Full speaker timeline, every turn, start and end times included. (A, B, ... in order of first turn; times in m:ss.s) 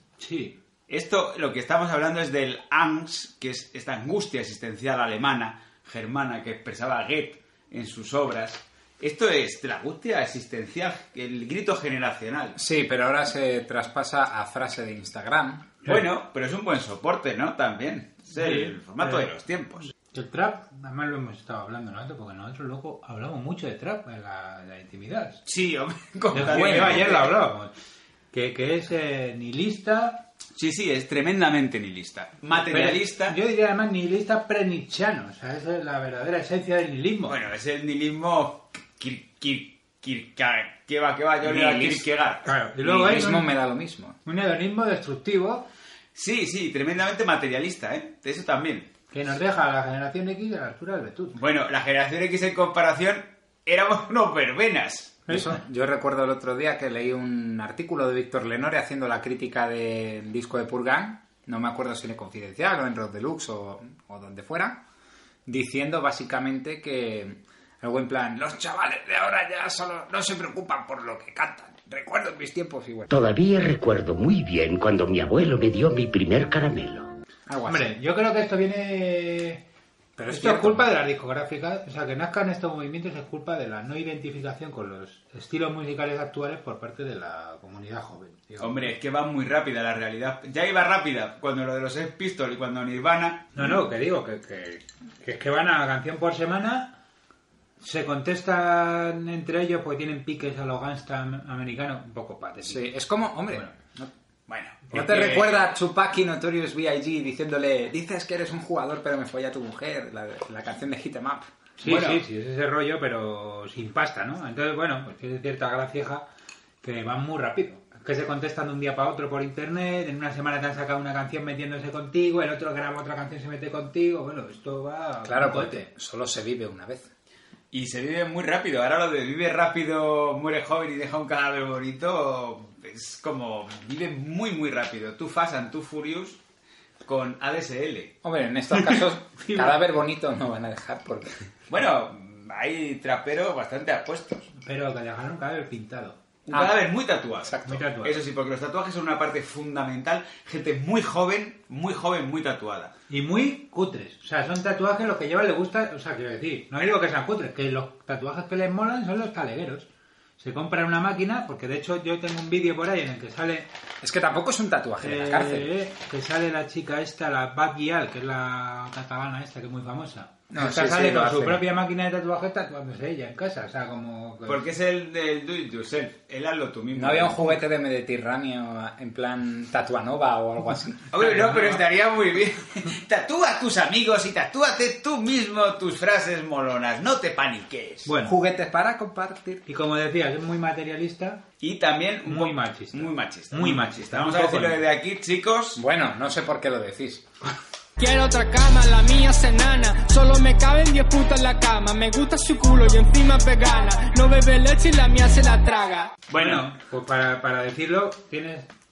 0:00.2-0:00.6 A
0:00.9-0:12.6 B
0:12.6-0:15.8 C
0:15.9-0:19.9 B
0:18.4-0:19.2 A
0:20.0-0:25.4 A
0:25.4-0:27.3 B
0:26.3-0:27.7 A
0:28.3-0:30.2 A
0:30.6-0:33.4 B
0:32.7-0:37.4 A
0:37.3-0:42.4 B
0:41.4-0:42.0 C
0:42.4-0:43.5 A
0:42.8-0:44.2 C
0:44.2-0:45.6 A
0:46.1-0:48.9 B
0:49.1-0:51.3 A
0:51.3-0:55.2 B
0:55.3-0:55.5 A
0:55.3-1:04.8 C
1:05.4-1:13.1 C
1:13.1-1:17.1 D
1:17.5-1:17.9 C
1:17.7-1:19.6 A
1:20.2-1:20.9 C
1:20.3-1:28.9 A
1:28.6-1:33.5 B
1:33.5-1:37.0 A
1:37.8-1:42.8 A
1:42.6-1:44.1 C
1:43.5-1:43.8 A
1:44.5-1:45.7 B
1:44.9-1:51.5 C
1:51.8-1:56.3 A
1:51.8-1:52.2 B
1:56.8-2:05.9 A
2:05.2-2:07.1 C
2:07.7-2:16.4 B
2:17.0-2:18.1 B
2:18.2-2:21.4 C
2:19.4-2:19.7 A
2:21.7-2:24.5 B
2:24.6-2:26.2 A
2:26.5-2:32.9 B
2:26.5-2:26.8 C
2:27.4-2:27.8 C
2:27.6-2:28.2 A
2:33.1-2:39.9 A
2:40.4-2:43.7 A
2:44.0-2:45.7 C
2:45.0-2:54.6 A
2:50.5-2:51.6 C
2:54.4-2:57.4 B
2:56.9-3:01.2 C
3:01.1-3:08.1 B
3:01.2-3:01.7 A
3:08.0-3:08.3 A
3:08.2-3:09.6 C
3:09.7-3:11.4 A
3:11.6-3:15.8 B
3:12.3-3:14.8 A
3:15.8-3:17.3 C
3:18.0-3:26.2 E
3:26.3-3:26.7 B
3:26.3-3:28.7 A